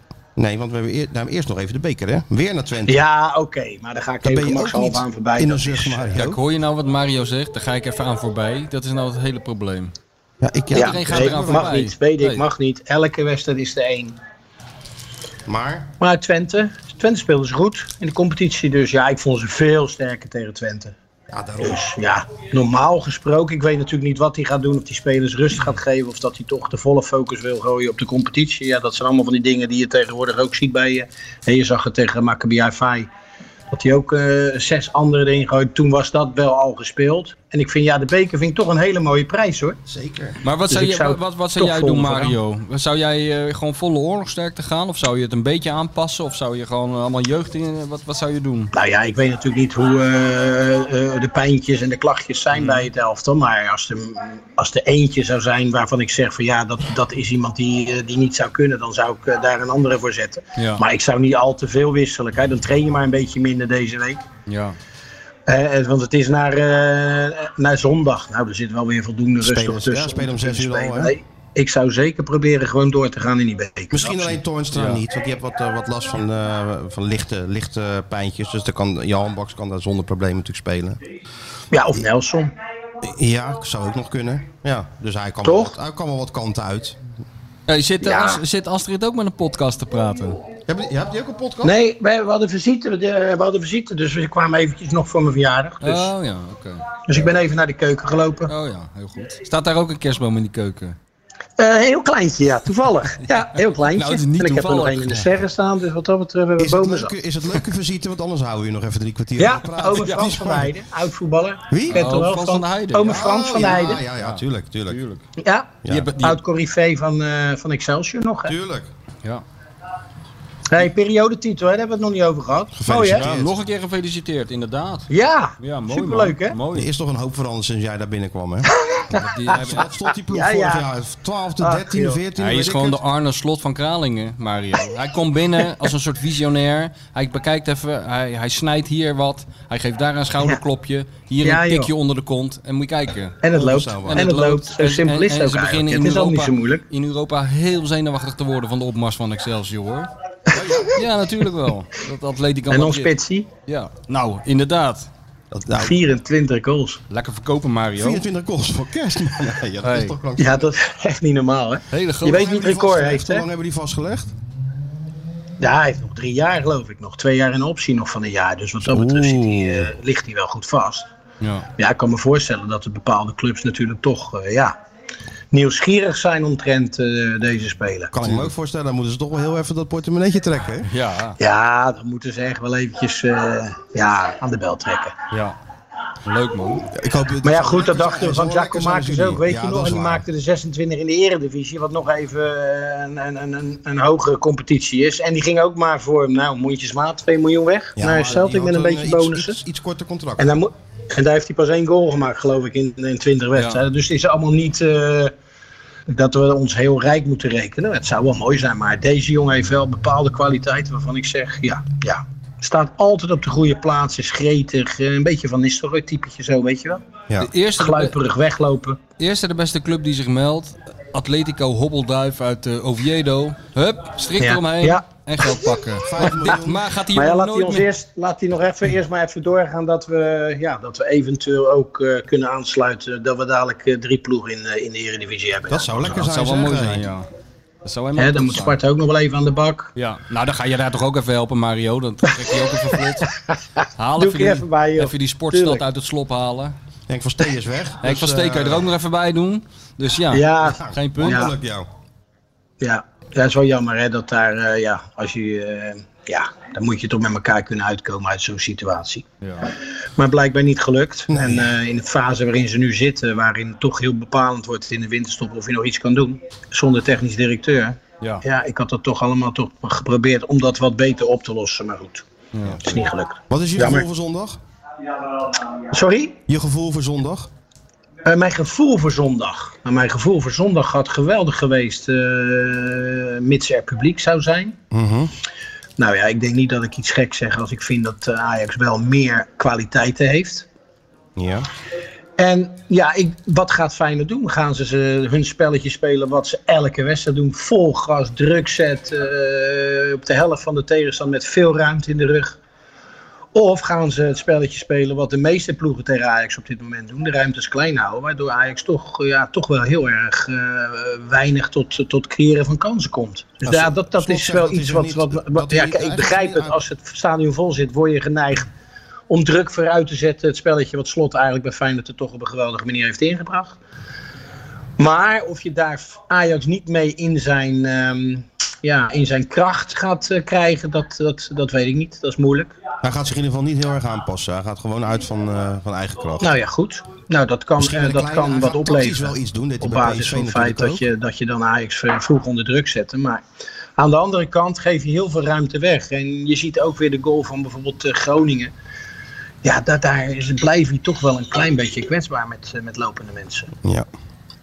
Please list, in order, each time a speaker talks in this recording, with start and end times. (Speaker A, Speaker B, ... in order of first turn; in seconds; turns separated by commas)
Speaker A: 0.3-3.0, Speaker B: 2.9-6.1, Speaker A: 4.2-6.4, Speaker C: 6.1-9.9, Speaker A: 10.4-11.7, Speaker B: 10.7-14.2, Speaker C: 10.7-12.4, Speaker A: 15.4-15.9, Speaker B: 16.0-20.9, Speaker A: 21.3-21.8, Speaker B: 21.6-33.1, Speaker B: 33.7-39.8, Speaker A: 39.9-40.4, Speaker C: 40.4-48.7, Speaker B: 40.7-42.4, Speaker B: 48.7-64.2, Speaker C: 52.5-52.9, Speaker C: 60.6-60.8, Speaker C: 64.5-64.8, Speaker B: 65.5-74.4, Speaker A: 69.4-71.1, Speaker A: 73.9-81.0, Speaker C: 74.7-75.0, Speaker B: 81.7-82.5, Speaker A: 83.0-87.0, Speaker B: 85.4-85.7, Speaker C: 87.7-90.4, Speaker B: 88.0-88.4, Speaker A: 90.7-91.7, Speaker B: 91.6-96.1, Speaker C: 95.8-96.9, Speaker B: 97.1-98.5, Speaker C: 98.5-101.0, Speaker B: 101.6-107.1, Speaker C: 103.9-105.1, Speaker A: 106.6-110.7, Speaker B: 109.4-114.0, Speaker A: 111.7-112.1, Speaker C: 111.9-115.2, Speaker A: 113.0-115.0, Speaker B: 115.4-118.5, Speaker A: 115.8-116.1, Speaker C: 115.9-116.4, Speaker A: 118.4-118.9, Speaker B: 120.7-123.3, Speaker A: 122.7-123.5, Speaker C: 123.0-126.9, Speaker B: 125.1-126.6, Speaker A: 126.7-128.7, Speaker B: 128.7-129.2, Speaker C: 129.1-129.8, Speaker A: 129.5-133.0, Speaker B: 130.2-130.9, Speaker B: 131.6-132.2, Speaker C: 132.4-143.4, Speaker B: 141.4-141.9, Speaker B: 143.4-146.8, Speaker A: 143.5-144.3, Speaker C: 144.1-150.1, Speaker A: 150.5-151.0, Speaker C: 150.9-153.1, Speaker B: 152.7-153.5, Speaker C: 153.7-155.1, Speaker A: 155.5-156.0, Speaker B: 155.8-157.0, Speaker C: 157.1-158.2, Speaker A: 157.9-160.7, Speaker C: 159.8-160.2, Speaker B: 160.4-163.4, Speaker C: 161.9-162.4, Speaker A: 162.2-164.3, Speaker B: 165.6-171.1, Speaker A: 168.8-169.9, Speaker C: 171.4-171.7, Speaker B: 171.8-174.8, Speaker B: 175.5-178.1, Speaker A: 178.1-180.9, Speaker C: 178.2-178.5, Speaker C: 180.8-181.4, Speaker B: 181.4-185.2, Speaker C: 185.3-185.6, Speaker C: 186.2-186.9, Speaker A: 186.9-190.2, Speaker B: 187.4-199.6, Speaker A: 198.0-200.6, Speaker B: 200.4-205.3, Speaker C: 203.5-203.8, Speaker B: 206.1-217.0, Speaker C: 217.4-218.2, Speaker B: 217.8-219.0, Speaker C: 219.2-227.9, Speaker B: 224.4-225.6, Speaker A: 226.0-226.9, Speaker B: 226.2-226.5, Speaker B: 227.1-236.1, Speaker A: 235.7-237.1, Speaker C: 236.1-237.3, Speaker C: 237.8-238.8, Speaker B: 238.2-239.9, Speaker C: 239.9-243.3, Speaker B: 243.8-245.8, Speaker C: 244.0-246.7, Speaker A: 247.1-248.9, Speaker C: 248.0-251.5, Speaker B: 250.3-251.5, Speaker A: 250.6-251.9, Speaker B: 252.8-259.2, Speaker C: 259.4-259.7, Speaker B: 260.2-272.2, Speaker A: 261.3-261.7, Speaker C: 272.5-272.8, Speaker A: 272.6-273.0, Speaker B: 272.8-274.0, Speaker A: 273.5-274.6, Speaker B: 275.7-276.4, Speaker A: 276.5-277.5, Speaker B: 278.2-284.8, Speaker A: 284.9-285.3, Speaker B: 286.0-290.7, Speaker A: 291.4-291.7, Speaker B: 292.4-302.6, Speaker B: 303.5-318.7, Speaker A: 313.6-316.8, Speaker B: 319.3-323.8, Speaker B: 325.0-332.7, Speaker A: 333.0-336.5, Speaker B: 336.4-343.4, Speaker A: 337.8-341.1, Speaker B: 344.0-348.7, Speaker B: 349.6-353.7